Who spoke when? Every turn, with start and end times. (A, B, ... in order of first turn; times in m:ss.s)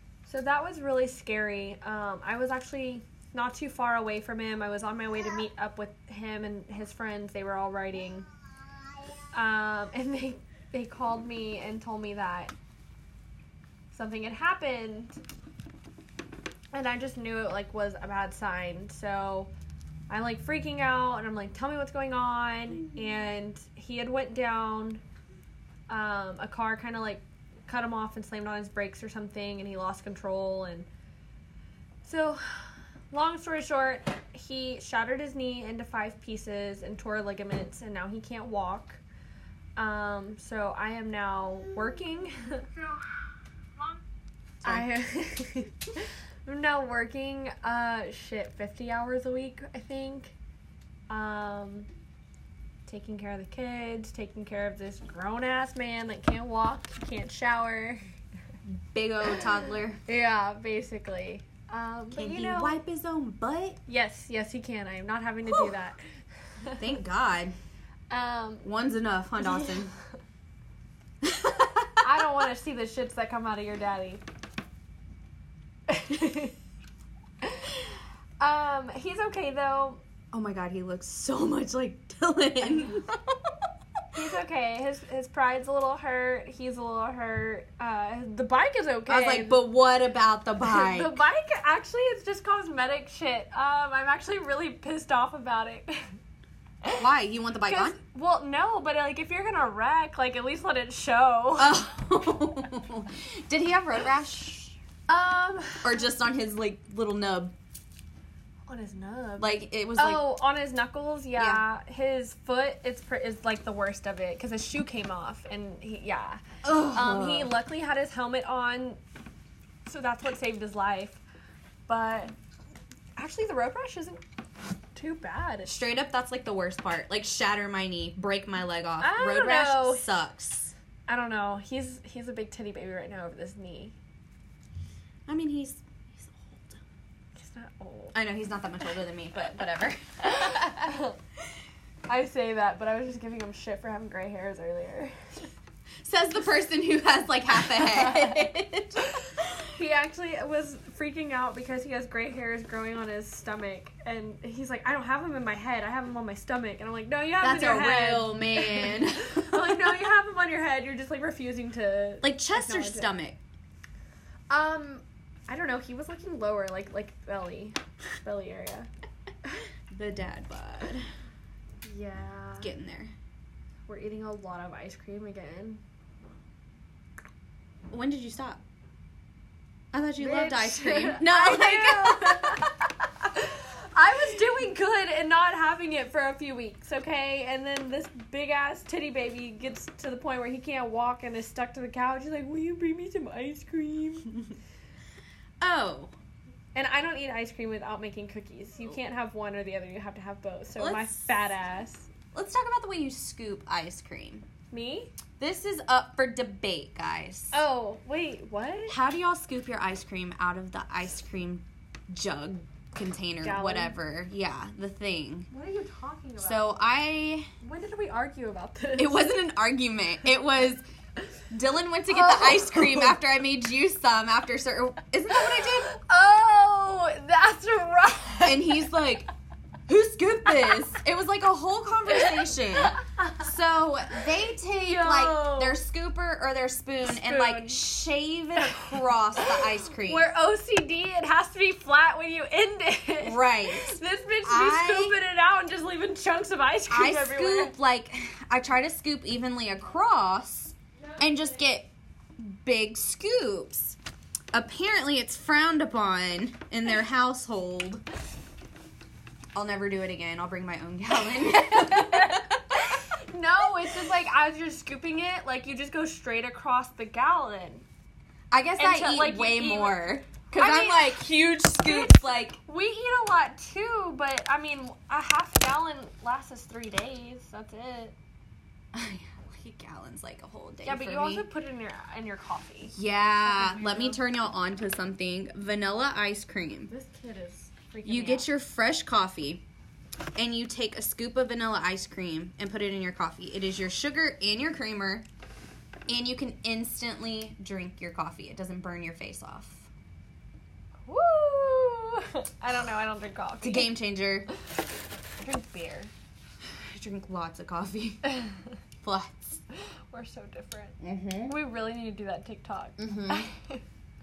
0:00.2-0:08.2 A
0:09.3-0:12.5 A
0:13.9-0:15.2 A
0:16.7-0:19.5 A
0:20.1-0:25.0 A
0:25.9-0:30.9 A
0:32.0-0:39.0 A
0:39.8-0:42.7 A
0:44.6-0:50.3 A
0:51.1-0:51.9 A
0:52.9-0:58.0 A
0:58.7-1:00.0 B
1:00.0-1:02.8 A
1:02.1-1:03.8 B
1:03.9-1:06.0 A
1:06.6-1:06.9 A
1:06.8-1:07.5 B
1:08.1-1:08.7 A
1:08.6-1:09.9 B
1:09.4-1:09.9 A
1:11.2-1:12.0 B
1:12.0-1:14.2 A
1:15.9-1:16.5 A
1:17.4-1:20.0 A
1:20.3-1:23.5 B
1:22.6-1:23.0 A
1:24.1-1:29.6 A
1:29.1-1:31.2 B
1:30.6-1:36.0 A
1:37.0-1:38.0 B
1:37.6-1:41.8 A
1:41.6-1:44.7 B
1:45.1-1:46.0 A
1:45.8-1:47.5 B
1:48.7-1:59.0 A
1:49.4-1:50.3 B
1:51.4-1:51.6 B
1:56.6-1:57.5 B
1:59.8-2:01.2 A
2:01.9-2:02.3 A
2:03.2-2:04.2 A
2:04.9-2:05.7 A
2:05.6-2:10.7 B
2:09.0-2:10.2 A
2:11.1-2:13.9 A
2:15.3-2:16.8 B
2:17.4-2:18.2 A
2:18.1-2:21.0 B
2:20.2-2:21.2 A
2:22.1-2:25.4 A
2:26.0-2:29.6 B
2:27.7-2:28.4 A
2:29.7-2:43.1 A
2:37.4-2:39.8 B
2:42.2-2:43.4 B
2:44.5-2:48.9 A
2:49.9-2:51.1 B
2:51.8-2:52.7 A
2:52.6-2:53.1 B
2:53.9-2:55.8 A
2:57.9-2:58.6 B
2:59.9-3:02.7 B
3:00.2-3:14.3 A
3:15.6-3:16.1 B
3:16.7-3:22.1 A
3:20.8-3:21.4 B
3:22.3-3:24.4 B
3:24.7-3:25.1 A
3:25.4-3:27.6 B
3:27.5-3:28.9 A
3:28.9-3:35.5 B
3:33.4-3:33.9 A
3:35.5-3:36.7 A
3:36.4-3:37.5 B
3:37.6-3:39.3 A
3:39.0-3:40.8 B
3:41.5-3:45.9 B
3:42.1-3:43.2 A
3:45.3-3:48.8 A
3:48.4-3:49.3 B
3:49.9-4:00.3 B
3:52.1-3:53.4 A
3:54.8-3:55.8 A
3:57.0-3:57.8 A
3:58.6-4:07.7 A
4:03.2-4:05.2 B
4:06.9-4:14.0 B
4:11.0-4:11.6 A
4:14.5-4:18.0 B
4:19.5-4:23.0 B
4:21.3-4:27.8 A
4:28.5-4:32.6 B
4:28.8-4:38.2 A
4:38.9-4:41.4 B
4:40.8-4:44.2 A
4:42.9-4:46.9 B
4:46.9-4:48.5 A
4:48.0-4:49.6 B
4:50.3-4:55.2 B
4:56.1-4:59.9 B
5:01.1-5:03.9 A
5:03.6-5:04.5 B
5:05.4-5:06.1 A
5:06.7-5:08.3 B
5:08.2-5:08.6 A
5:09.0-5:09.6 B
5:09.7-5:13.8 A
5:11.0-5:11.5 B
5:13.0-5:13.5 B